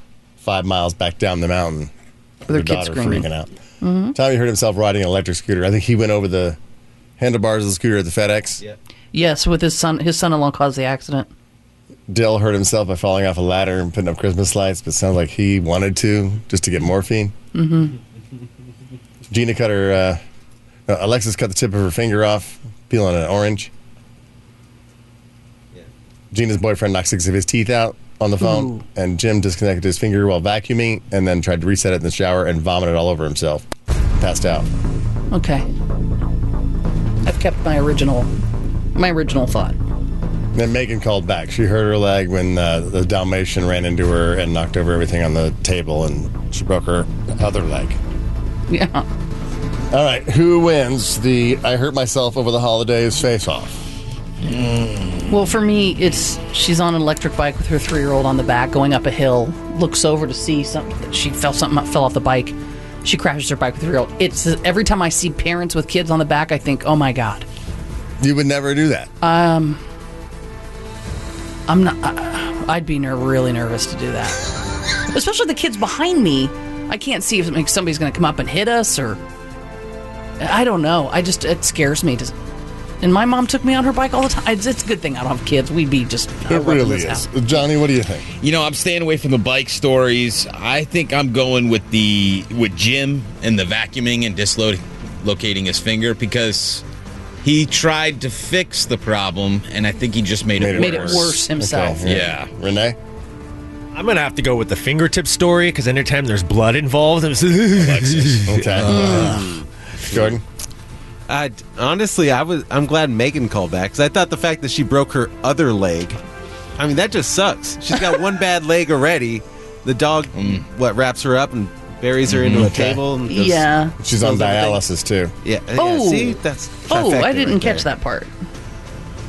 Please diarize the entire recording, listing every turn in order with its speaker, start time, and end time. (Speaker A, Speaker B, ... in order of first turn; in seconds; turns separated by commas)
Speaker A: 0.4-1.9, Speaker B: 2.5-3.3, Speaker A: 2.5-3.5, Speaker B: 3.8-4.2, Speaker A: 4.1-6.6, Speaker A: 7.2-8.6, Speaker B: 9.1-11.3, Speaker A: 12.1-17.3, Speaker B: 17.5-17.9, Speaker A: 19.3-20.2, Speaker A: 20.9-23.7, Speaker A: 26.3-33.7, Speaker B: 28.4-28.9, Speaker A: 34.2-34.7, Speaker B: 35.3-35.7, Speaker B: 37.2-38.3, Speaker B: 39.0-39.8, Speaker A: 40.5-48.0, Speaker B: 48.7-49.1, Speaker A: 49.9-53.9, Speaker C: 54.5-55.3, Speaker B: 55.3-67.5, Speaker A: 68.2-69.1, Speaker B: 69.2-69.8, Speaker B: 71.7-74.5, Speaker B: 75.1-79.2, Speaker B: 80.4-82.3, Speaker B: 83.0-87.3, Speaker A: 86.5-88.3, Speaker C: 88.4-96.8, Speaker C: 97.4-101.3, Speaker A: 100.6-103.0, Speaker B: 100.7-102.0, Speaker C: 102.0-102.5, Speaker D: 103.9-108.6, Speaker A: 107.7-109.5, Speaker C: 108.8-109.2, Speaker B: 108.9-109.5, Speaker E: 109.2-109.7, Speaker A: 110.1-110.4, Speaker E: 111.3-116.2, Speaker E: 116.8-123.7, Speaker C: 120.3-120.7, Speaker C: 122.2-122.9, Speaker A: 122.7-123.0, Speaker B: 123.3-124.8, Speaker A: 124.0-125.3, Speaker E: 124.3-124.6, Speaker E: 125.4-127.9, Speaker B: 125.8-128.3